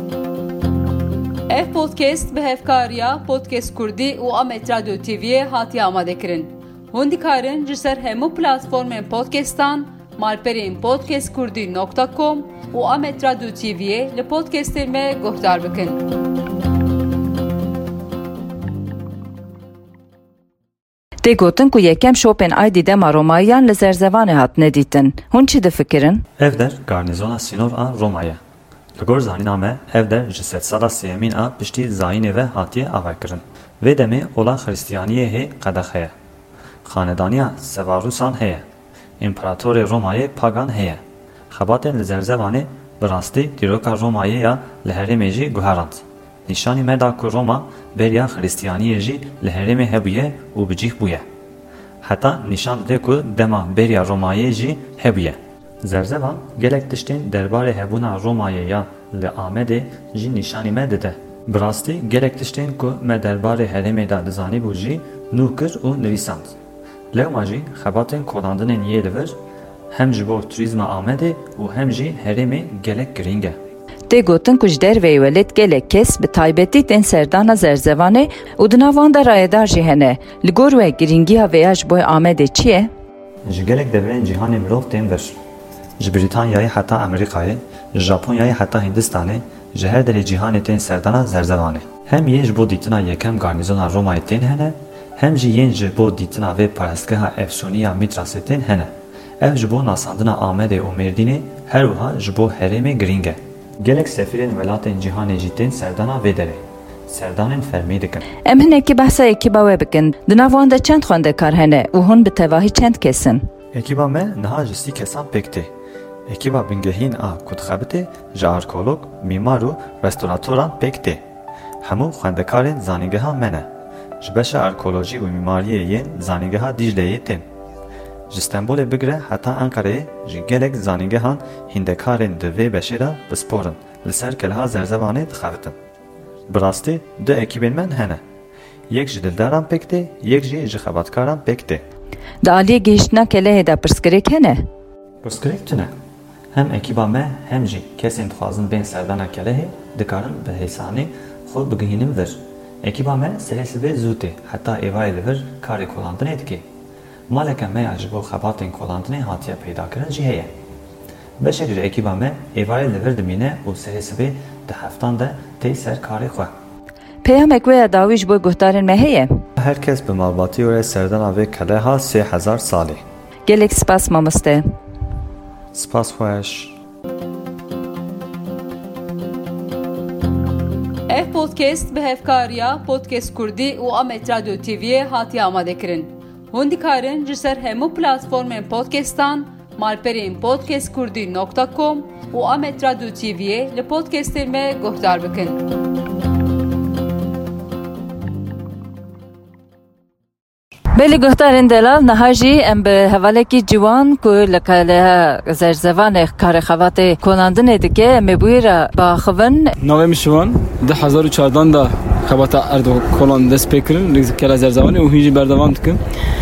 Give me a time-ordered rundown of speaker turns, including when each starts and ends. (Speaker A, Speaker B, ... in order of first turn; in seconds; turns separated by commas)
Speaker A: 1.5-16.0, Speaker B: 21.2-26.2, Speaker C: 26.4-28.4, Speaker C: 29.0-36.1, Speaker C: 36.8-38.6, Speaker C: 39.2-51.2, Speaker C: 52.0-66.5, Speaker C: 67.1-69.3, Speaker C: 69.9-73.6, Speaker B: 74.1-82.9, Speaker C: 83.5-85.3, Speaker C: 86.0-108.2, Speaker B: 108.4-113.4, Speaker C: 113.7-115.7, Speaker C: 116.3-121.2, Speaker C: 121.8-123.7, Speaker C: 124.2-127.4, Speaker C: 128.3-135.8, Speaker C: 136.5-138.2, Speaker C: 138.9-141.8, Speaker B: 142.4-144.6, Speaker C: 145.2-145.9, Speaker C: 146.5-156.7, Speaker C: 157.3-160.5, Speaker C: 161.4-166.5, Speaker B: 167.2-169.3, Speaker C: 169.6-173.0, Speaker B: 173.4-174.6, Speaker C: 175.7-176.8, Speaker A: 181.1-195.6, Speaker B: 200.9-209.7, Speaker D: 209.8-216.0